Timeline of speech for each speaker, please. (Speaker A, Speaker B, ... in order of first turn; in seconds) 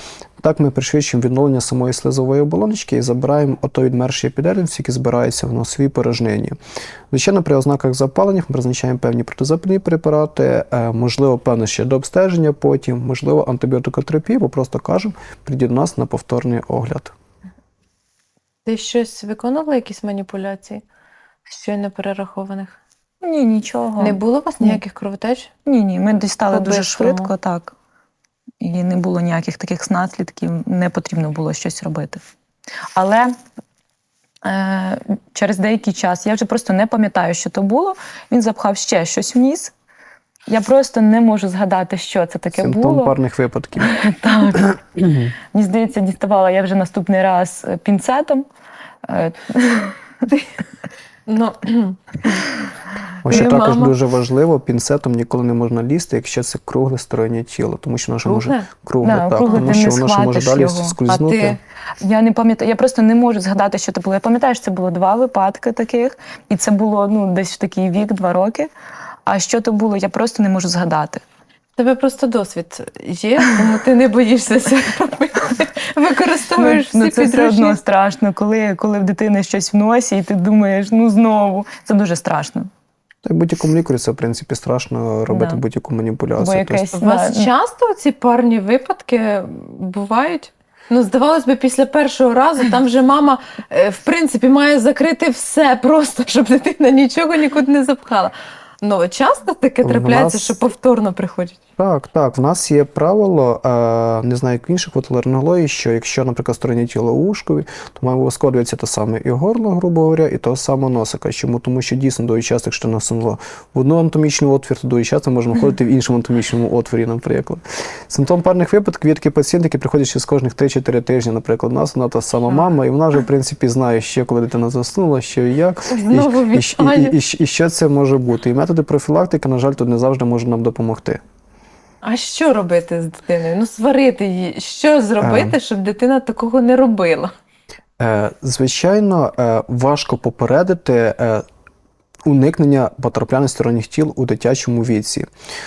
Speaker A: 0.4-6.6, 7.1-17.1, 42.5-44.0, 44.5-45.3, 53.2-61.6, 83.2-86.8, 99.8-100.6, 101.8-131.2, 135.2-135.6, 138.0-141.4, 142.3-145.3
Speaker B: 18.7-20.8, 21.5-22.8, 24.0-25.5, 26.5-27.3, 51.3-52.4, 53.3-53.9, 58.3-58.7, 61.1-61.6, 71.8-77.8, 86.9-101.6, 125.9-127.2, 132.0-137.3
Speaker C: 23.2-24.8, 25.7-27.7, 28.6-32.2, 33.0-33.4, 34.4-39.7, 40.5-43.1, 43.8-44.8, 45.5-48.5, 49.0-50.0, 53.3-53.7, 59.0-61.0, 62.0-68.7, 69.3-71.2, 76.6-82.7, 85.3-85.6, 86.4-87.5